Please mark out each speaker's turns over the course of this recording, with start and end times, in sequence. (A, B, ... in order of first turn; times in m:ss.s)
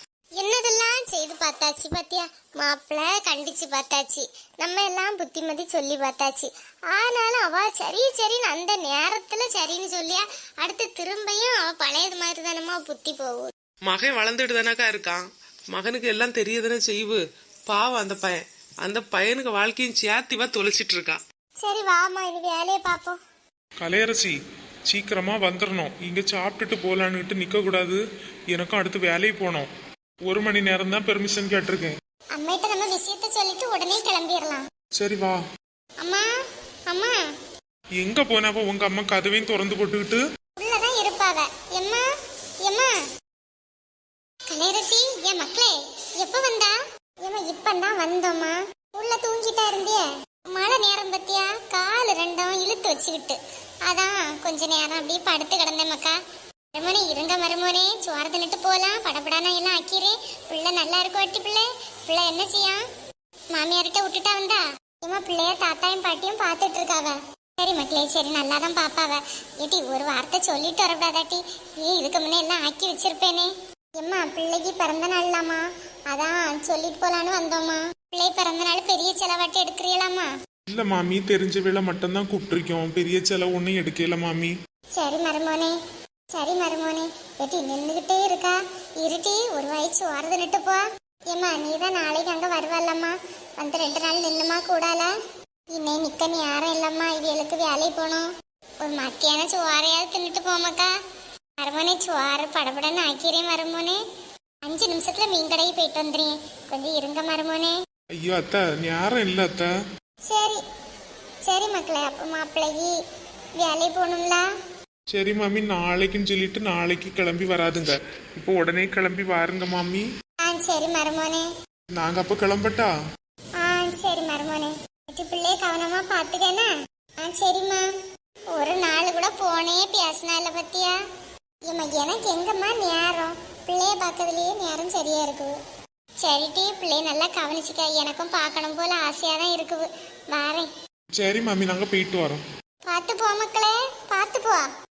0:00.4-0:13.5 A
0:13.9-0:21.2 B
0:21.6-0:23.2 A
0:23.8-0:24.4 C
0:24.9-0:28.0 C
0:28.5-0:29.7 C
0:30.3-0:31.9 C
0:32.4-0:34.6 A
0:35.0-0:35.4 C
0:36.0-0:36.3 A
0:36.9-0:37.2 A
0:38.0-0:40.2 C
0:40.6-0:42.1 A
0:42.6-0:43.0 A
0:44.5-0:56.2 A
0:56.8-1:02.8 A
1:03.5-1:20.3 A
1:20.7-1:24.5 C
1:25.0-1:25.8 A
1:26.4-1:35.1 A
1:35.8-1:38.3 A
1:38.8-1:40.9 A
1:41.6-1:44.0 A
1:44.7-1:47.8 A
1:48.2-1:49.7 C
1:50.3-1:50.6 A
1:51.5-1:53.0 A
1:53.6-1:54.5 A
1:55.1-2:00.0 C
2:00.4-2:01.5 A
2:01.9-2:02.9 C
2:03.6-2:06.7 A
2:07.2-2:07.8 A
2:08.5-2:11.0 A
2:11.7-2:15.5 A
2:16.2-2:20.7 A
2:21.1-2:22.4 C
2:22.9-2:24.6 A